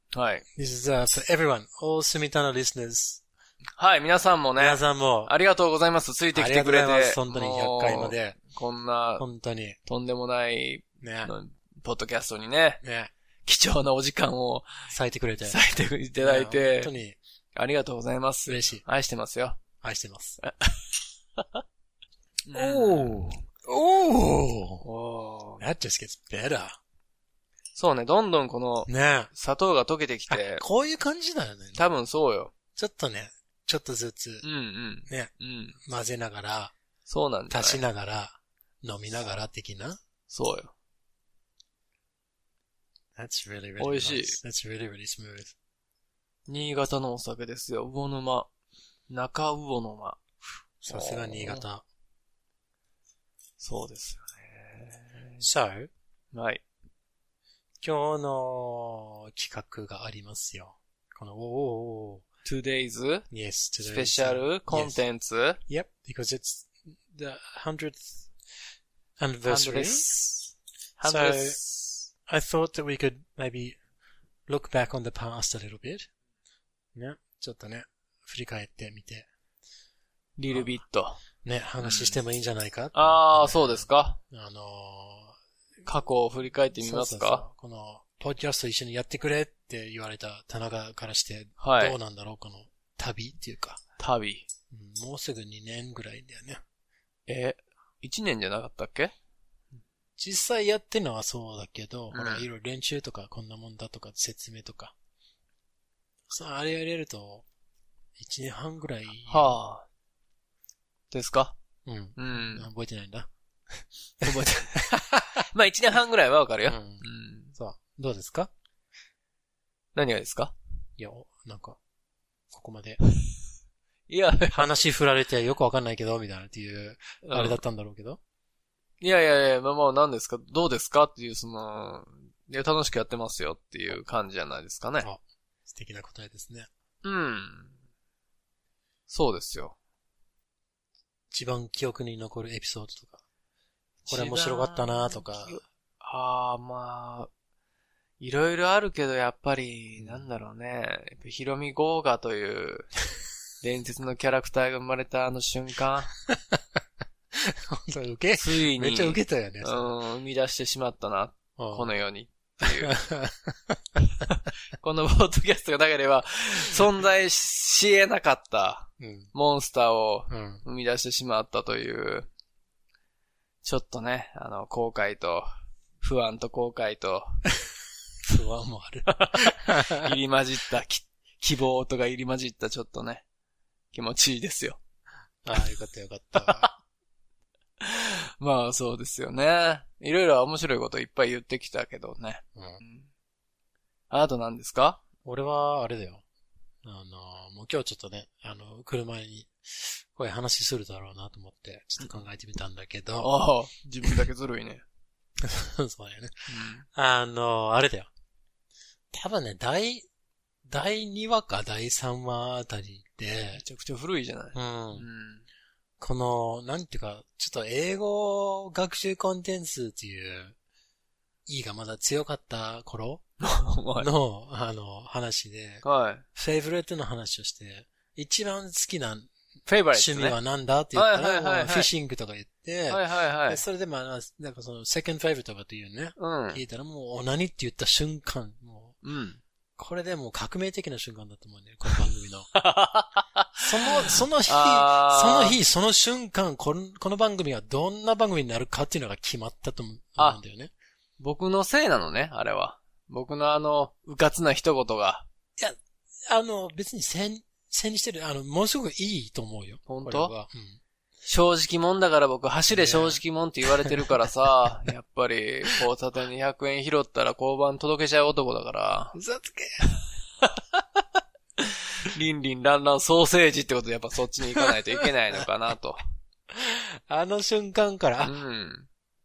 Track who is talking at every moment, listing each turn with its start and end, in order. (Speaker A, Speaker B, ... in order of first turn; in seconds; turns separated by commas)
Speaker A: 0.1-0.5, Speaker B: 0.5-3.2, Speaker A: 3.8-9.2, Speaker B: 4.6-5.3, Speaker B: 6.3-8.4, Speaker B: 9.2-9.8, Speaker A: 9.9-12.8, Speaker B: 11.0-11.3, Speaker B: 12.8-13.1, Speaker A: 13.4-14.7, Speaker B: 14.9-15.6, Speaker A: 15.4-16.9, Speaker B: 16.2-17.2, Speaker A: 17.6-19.6, Speaker B: 18.5-18.8, Speaker B: 19.8-20.4, Speaker A: 20.4-20.8, Speaker A: 22.5-23.4, Speaker B: 22.5-24.9, Speaker A: 24.8-25.6, Speaker B: 25.6-26.8, Speaker A: 27.8-30.6, Speaker B: 28.9-29.3, Speaker B: 30.3-31.8, Speaker A: 31.8-32.5, Speaker B: 32.8-34.5, Speaker A: 34.4-35.8, Speaker B: 35.1-36.7, Speaker A: 37.1-37.8, Speaker B: 37.5-40.0, Speaker A: 40.3-40.7, Speaker B: 43.2-45.5, Speaker A: 43.8-44.4, Speaker A: 46.5-48.5, Speaker A: 49.1-51.7, Speaker B: 50.8-51.9, Speaker A: 53.6-55.4, Speaker B: 55.4-55.9, Speaker A: 56.3-56.6, Speaker B: 57.8-62.2, Speaker A: 62.5-63.3, Speaker B: 63.3-65.0, Speaker A: 63.8-65.6, Speaker B: 65.7-68.3, Speaker B: 69.2-70.2, Speaker A: 69.5-72.1, Speaker B: 71.0-71.6, Speaker B: 72.3-73.8, Speaker B: 74.5-76.1, Speaker B: 77.0-79.3, Speaker A: 80.4-81.2, Speaker B: 80.5-80.8, Speaker B: 81.4-85.4, Speaker A: 81.8-82.2, Speaker A: 83.0-84.2, Speaker A: 85.9-87.5, Speaker B: 86.8-93.8, Speaker A: 91.6-92.0, Speaker A: 94.0-94.5, Speaker B: 94.7-96.6, Speaker A: 97.3-99.1, Speaker B: 100.2-104.9, Speaker A: 102.1-102.5, Speaker B: 106.3-107.5, Speaker B: 108.2-109.5, Speaker A: 109.3-109.9, Speaker A: 111.1-111.6, Speaker B: 111.9-115.2, Speaker A: 112.2-112.7, Speaker A: 114.2-117.5, Speaker B: 116.7-118.5, Speaker A: 120.0-120.5, Speaker B: 121.0-121.8, Speaker B: 122.5-123.0, Speaker A: 124.1-124.7, Speaker B: 124.5-128.2, Speaker A: 127.2-127.6, Speaker A: 129.0-135.1, Speaker B: 135.0-136.7, Speaker A: 137.0-137.7, Speaker A: 139.1-139.8, Speaker B: 141.3-143.2, Speaker A: 144.0-147.3, Speaker B: 144.1-145.6, Speaker A: 148.2-152.9, Speaker A: 153.6-156.1, Speaker B: 156.3-156.6, Speaker B: 157.3-159.8, Speaker A: 158.4-162.9, Speaker B: 161.6-161.9, Speaker B: 162.8-163.8, Speaker A: 164.2-172.3, Speaker B: 169.0-169.3, Speaker B: 170.3-170.6, Speaker A: 173.6-175.5, Speaker A: 176.0-177.4, Speaker B: 178.2-180.2, Speaker A: 179.1-183.2, Speaker A: 183.9-184.8, Speaker B: 185.4-186.7, Speaker A: 186.4-186.7, Speaker A: 187.8-193.1, Speaker A: 194.1-195.0, Speaker B: 195.2-196.2, Speaker B: 196.8-203.3, Speaker A: 203.2-204.8, Speaker B: 205.4-208.1, Speaker A: 206.5-206.8, Speaker B: 209.1-210.1, Speaker B: 210.7-213.6, Speaker A: 213.5-215.4, Speaker B: 214.6-215.1, Speaker B: 216.0-220.6, Speaker B: 221.5-223.2, Speaker A: 223.4-224.1, Speaker B: 224.0-229.3, Speaker A: 225.8-226.2, Speaker A: 229.7-230.4, Speaker B: 229.9-239.0, Speaker A: 230.9-231.9, Speaker A: 232.9-233.6, Speaker A: 236.2-236.6, Speaker A: 239.0-239.4, Speaker B: 239.8-242.5, Speaker A: 242.5-245.6, Speaker B: 243.6-250.7, Speaker A: 251.2-255.3, Speaker B: 255.6-260.8, Speaker A: 259.9-260.3, Speaker A: 261.2-269.2, Speaker B: 262.7-263.2, Speaker B: 263.8-264.2, Speaker B: 269.1-269.9, Speaker A: 271.6-276.0, Speaker B: 276.5-278.4, Speaker A: 278.2-278.9